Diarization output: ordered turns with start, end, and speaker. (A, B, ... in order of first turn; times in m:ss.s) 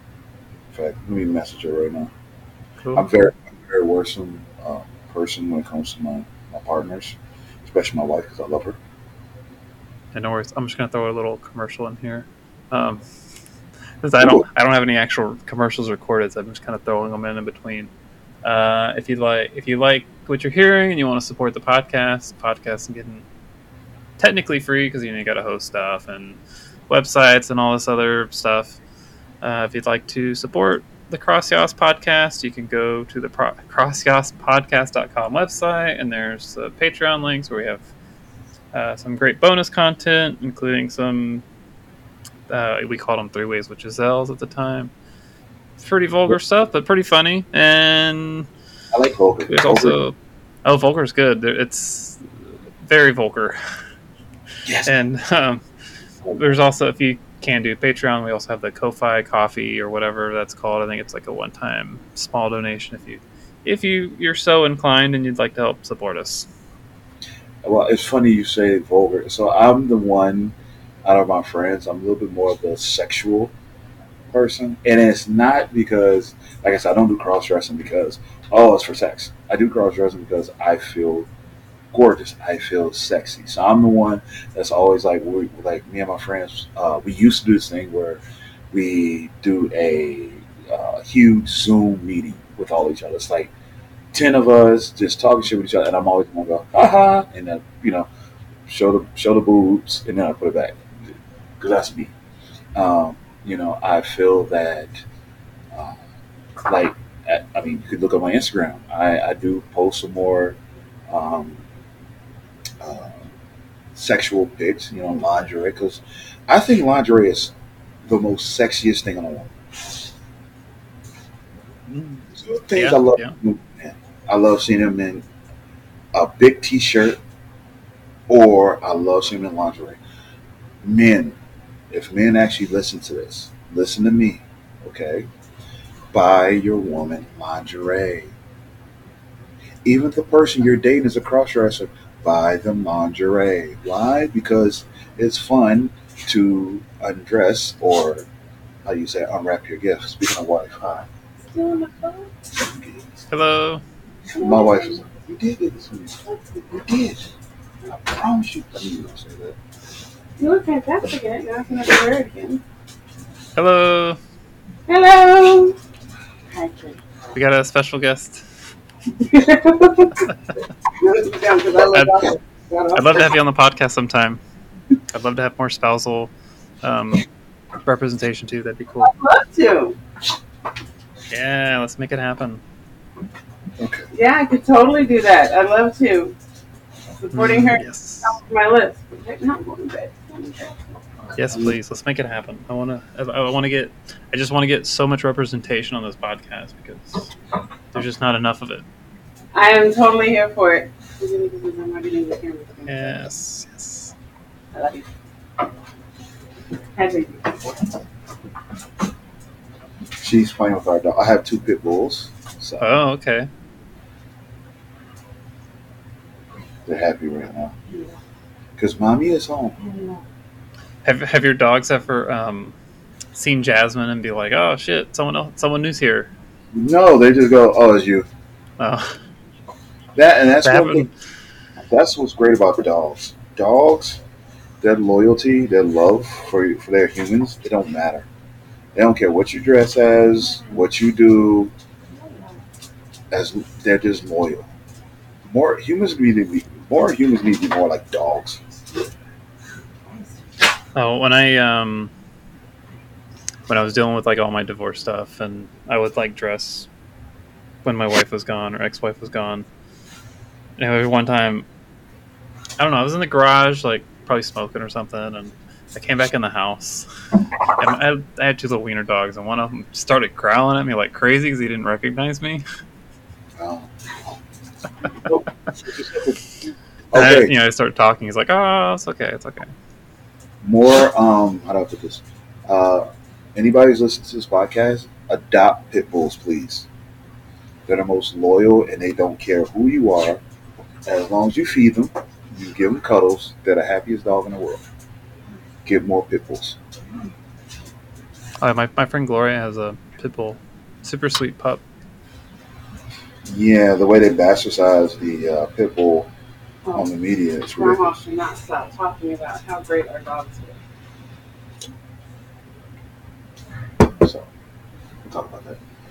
0:00.7-0:02.1 A
0:02.9-0:08.8 A
0:10.1-0:13.0 B
0:14.0-0:17.9 B
0:18.4-0:23.2 B
0:24.2-0:28.8 B
0:29.4-0:37.8 B
0:38.7-0:41.4 B
0:42.5-0:44.9 B
0:45.8-0:48.5 B
0:48.9-0:50.0 A
0:49.4-0:52.3 B
0:52.8-0:53.6 B
0:54.8-0:55.6 B
0:56.3-1:06.5 B
1:07.6-1:13.5 A
1:14.3-1:21.3 A
1:21.9-1:33.5 A
1:34.1-1:38.1 A
1:38.7-1:40.8 A
1:41.6-1:42.1 A
1:42.7-1:45.0 A
1:45.7-1:46.0 A
1:46.6-1:50.6 A
1:51.1-1:51.6 A
1:52.8-1:53.3 A
1:53.9-1:57.5 A
1:58.0-1:59.9 A
2:01.9-2:03.4 B
2:02.3-2:05.2 A
2:06.1-2:07.2 A
2:08.3-2:10.0 A
2:10.8-2:11.4 A
2:11.9-2:15.3 A
2:16.1-2:18.3 A
2:19.8-2:28.3 A
2:28.8-2:31.1 A
2:31.5-2:32.3 C
2:32.6-2:33.1 A
2:33.3-2:33.8 B
2:34.3-2:37.3 A
2:34.4-2:35.0 C
2:37.8-2:39.6 A
2:40.4-2:42.6 C
2:43.5-2:44.2 B
2:44.9-2:45.8 C
2:46.5-2:47.0 C
2:47.3-2:48.4 B
2:49.2-2:50.3 C
2:51.0-2:53.3 C
2:51.9-2:52.2 B
2:52.9-2:54.4 B
2:55.1-2:56.3 B
2:56.8-2:57.2 B
2:57.8-2:59.1 B
2:59.0-3:00.0 C
3:01.3-3:02.6 B
3:03.8-3:04.1 A
3:04.1-3:06.4 C
3:07.2-3:11.0 C
3:07.3-3:08.3 B
3:11.3-3:17.3 B
3:17.9-3:18.8 B
3:19.5-3:23.1 C
3:22.8-3:24.1 B
3:24.7-3:25.1 C
3:26.9-3:27.8 C
3:30.2-3:32.9 A
3:32.8-3:33.5 B
3:36.8-3:37.7 A
3:38.8-3:39.8 A
3:39.8-3:40.2 C
3:41.0-3:42.7 B
3:43.3-3:46.3 B
3:46.7-3:48.3 A
3:48.8-3:49.2 B
3:50.1-3:51.1 A
3:50.6-3:51.1 B
3:51.8-3:54.2 A
3:54.8-3:58.2 A
3:58.9-4:01.7 A
4:03.3-4:04.7 A
4:05.5-4:08.6 A
4:10.9-4:12.1 B
4:13.7-4:16.9 B
4:17.8-4:19.6 B
4:20.8-4:21.6 B
4:22.8-4:27.1 B
4:27.7-4:32.6 B
4:33.6-4:33.9 A
4:35.2-4:36.5 A
4:37.1-4:37.5 A
4:37.1-4:39.7 B
4:40.6-4:46.9 A
4:47.8-4:50.4 A
4:51.0-4:54.8 A
4:55.8-4:56.8 A
4:58.6-5:01.8 B
5:03.4-5:06.3 A
5:06.9-5:08.2 A
5:07.8-5:10.8 C
5:14.0-5:14.5 A
5:15.2-5:15.8 A